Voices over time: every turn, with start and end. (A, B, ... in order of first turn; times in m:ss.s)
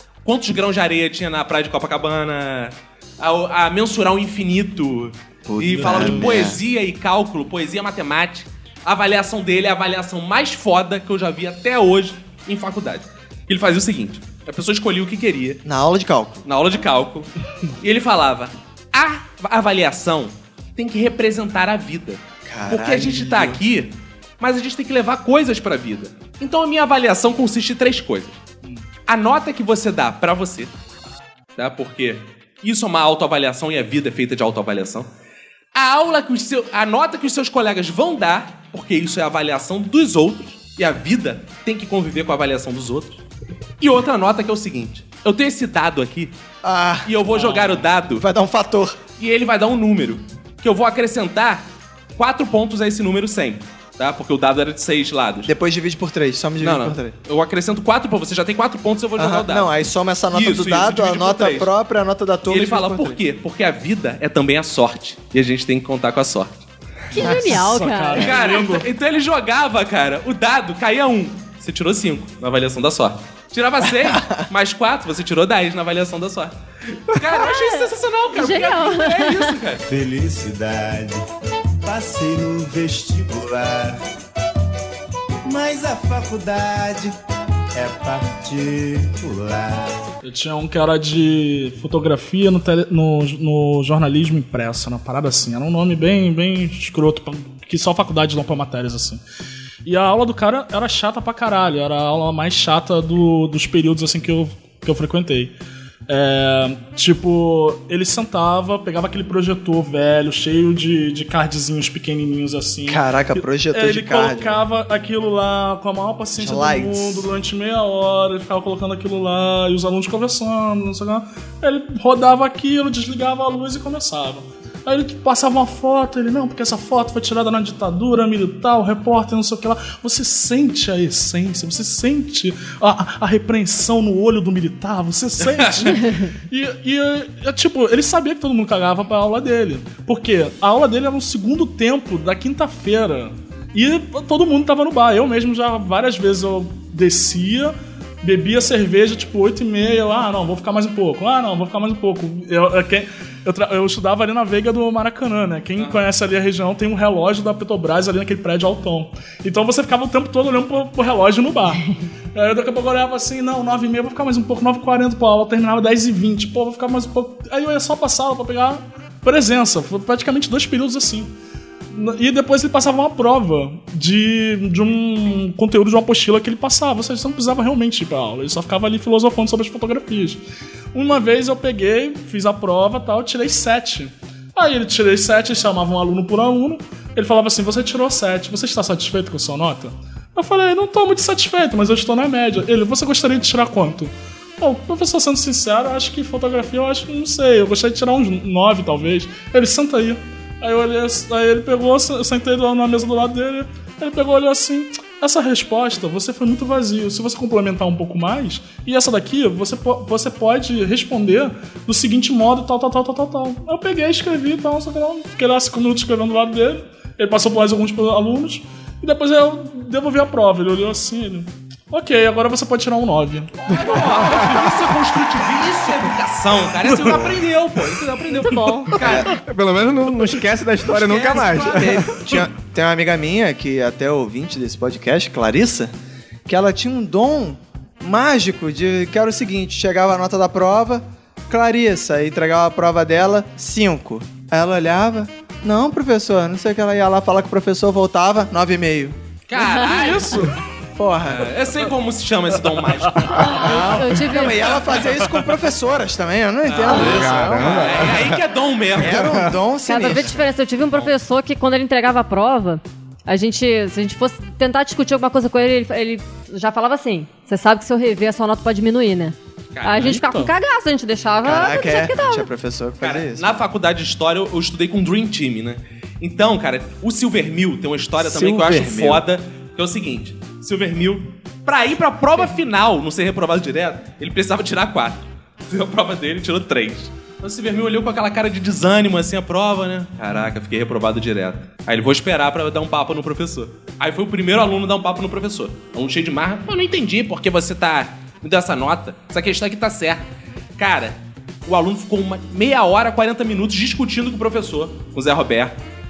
0:00.2-0:15.6 A
0:05.5-0:06.6 B
0:05.7-0:06.3 C
0:15.6-0:16.4 B
0:16.4-0:28.4 A
0:22.5-0:23.6 B
0:29.1-0:30.7 A
0:31.6-0:35.1 A
0:35.7-0:43.2 A
0:43.8-0:46.3 A
0:46.6-0:47.6 B
0:47.0-0:48.2 A
0:47.4-0:47.7 C
0:48.1-0:49.0 B
0:49.2-0:51.6 A
0:52.1-0:55.5 A
0:55.4-0:57.1 B
0:56.6-0:59.7 A
0:59.2-1:03.2 B
1:00.3-1:01.7 A
1:02.5-1:06.6 A
1:07.1-1:08.4 D
1:07.2-1:07.6 B
1:07.2-1:08.8 C
1:08.2-1:19.8 A
1:14.0-1:14.4 B
1:17.3-1:19.6 D
1:19.8-1:21.2 E
1:21.8-1:24.0 E
1:25.4-1:27.1 E
1:27.7-1:30.1 E
1:30.2-1:39.2 C
1:39.8-1:45.5 C
1:46.1-2:51.3 C
1:52.9-1:54.6 B
1:56.4-1:57.3 B
2:15.5-2:16.0 A
2:35.8-2:36.0 A
2:51.9-3:00.4 C
3:00.9-3:43.6 C
3:43.6-3:49.3 A
3:44.0-3:44.5 F
3:47.1-3:47.3 B
3:48.9-3:49.3 B
3:49.1-3:52.2 F
3:50.9-3:52.4 A
3:51.2-3:55.9 B
3:56.5-4:09.2 B
4:09.5-4:10.4 A
4:09.6-4:10.2 D
4:09.9-4:10.6 C
4:10.9-4:11.6 B
4:11.2-4:14.9 A
4:13.4-4:14.7 D
4:13.5-4:18.2 B
4:16.6-4:19.4 A
4:16.9-4:18.4 F
4:18.9-4:20.3 B
4:19.2-4:19.4 F
4:19.8-4:32.5 D
4:29.7-4:30.2 A
4:30.0-4:30.5 C
4:31.4-4:33.4 B
4:33.0-5:00.2 A
4:38.2-4:39.2 B
5:00.8-5:05.8 A